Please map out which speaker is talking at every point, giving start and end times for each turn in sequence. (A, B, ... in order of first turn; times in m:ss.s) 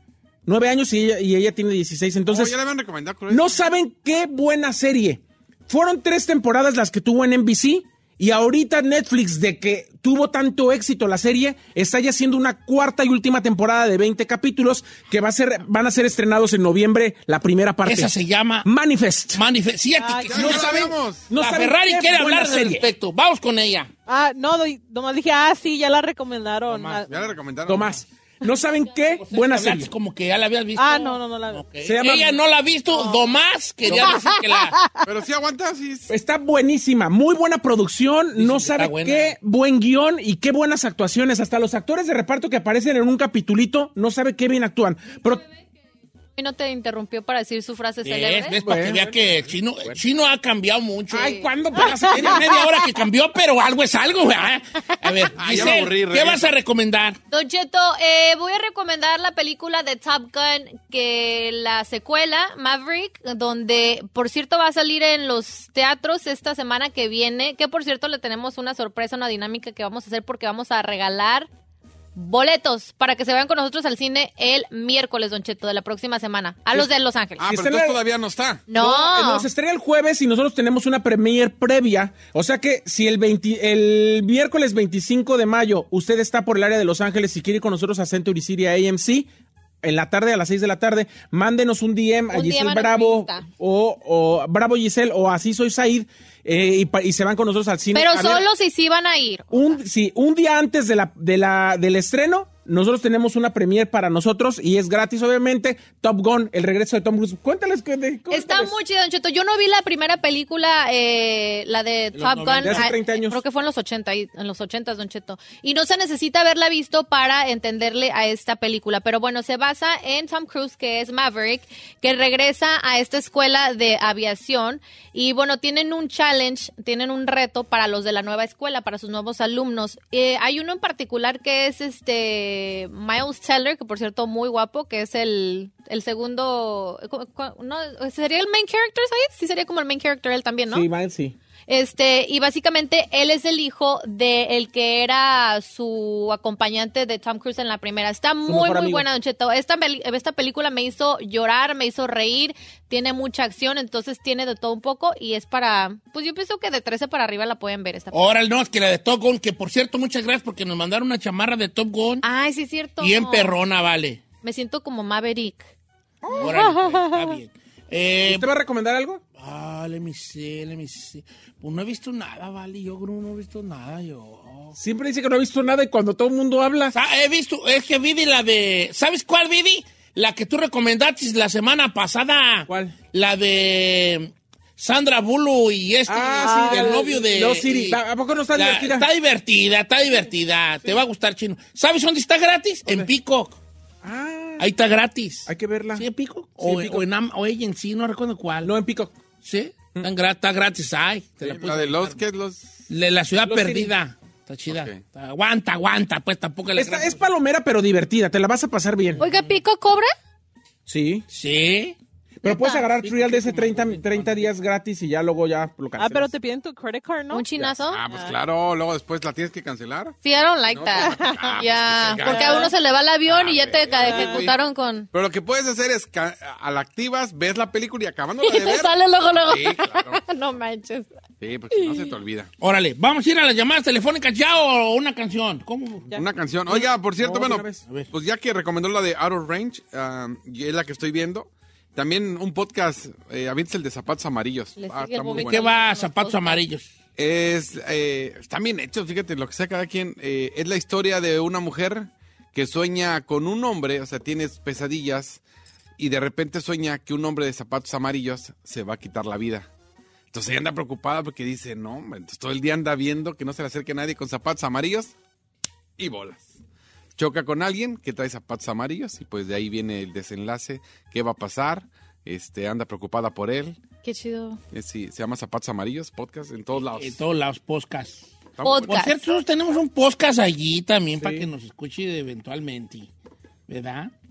0:00.4-0:02.5 A
0:02.3-0:03.6 B
0:03.3-0:18.1 A
0:17.8-0:18.7 C
0:18.6-0:19.4 A
0:19.3-0:23.9 C
0:20.0-0:20.4 D
0:20.3-0:21.3 B
0:20.4-0:22.8 A
0:24.1-0:27.1 D
0:26.7-0:27.2 C
0:27.1-0:28.0 B
0:27.6-0:29.9 A
0:29.0-0:34.8 C
0:30.8-0:31.7 D
0:31.8-0:32.3 A
0:33.9-0:35.0 D
0:35.0-0:36.1 B
0:36.1-0:45.4 A
0:38.3-0:39.4 C
0:46.4-0:48.6 E
0:48.0-0:57.2 C
0:48.6-0:49.2 A
0:51.1-0:52.5 A
0:51.2-0:51.4 E
0:55.4-0:56.5 B
0:57.3-1:11.5 E
1:12.2-1:17.4 E
1:17.4-1:18.7 B
1:17.4-1:18.0 A
1:18.7-1:19.5 E
1:18.7-1:29.3 A
1:29.8-1:38.4 A
1:32.3-1:33.4 E
1:37.9-1:39.8 E
1:39.5-1:48.7 A
1:48.3-2:20.9 E
1:52.1-1:52.9 C
1:52.6-1:53.4 A
2:20.7-2:21.3 A
2:21.7-2:38.3 E
2:28.4-2:29.0 A
2:38.1-2:42.2 C
2:42.2-2:43.5 E
2:43.0-2:44.2 C
2:44.4-2:45.7 E
2:46.4-2:48.4 C
2:46.4-2:47.3 D
2:48.2-2:49.2 A
2:49.4-2:54.8 C
2:54.7-2:56.9 A
2:56.9-3:08.0 C
3:02.7-3:02.9 A
3:06.1-3:09.1 A
3:06.4-3:07.1 D
3:08.5-3:13.6 C
3:14.0-3:14.7 A
3:14.6-3:18.7 C
3:15.5-3:16.0 A
3:16.6-3:17.0 A
3:18.6-3:19.2 A
3:19.4-3:22.2 C
3:21.4-3:22.8 B
3:22.9-3:27.2 C
3:23.4-3:23.9 A
3:24.7-3:25.0 B
3:26.7-3:29.2 A
3:29.2-3:30.1 E
3:30.8-3:31.2 A
3:31.3-3:32.0 C
3:32.4-3:36.3 A
3:32.4-3:32.9 E
3:33.0-3:34.5 C
3:36.0-3:37.5 D
3:37.3-3:38.0 E
3:37.6-3:40.2 B
3:38.1-3:38.4 D
3:40.2-3:45.1 E
3:40.7-3:44.6 B
3:41.0-3:41.6 D
3:42.2-3:42.7 D
3:44.0-3:44.4 D
3:45.1-3:50.2 B
3:48.4-3:51.1 E
3:51.4-3:52.5 B
3:51.7-3:52.1 E
3:52.6-3:56.1 C
3:56.1-4:05.6 B
3:57.2-3:57.8 A
4:04.8-4:06.6 E
4:05.3-4:06.9 C
4:07.2-4:15.4 B
4:16.0-4:19.7 B
4:20.3-4:25.1 B
4:26.0-4:26.5 B
4:27.2-4:33.8 B
4:34.0-4:34.6 E
4:34.7-4:37.2 B
4:36.8-4:38.3 C
4:38.6-4:38.9 B
4:38.6-4:39.1 E
4:38.8-4:43.1 C
4:41.2-4:41.5 A
4:43.7-4:44.1 C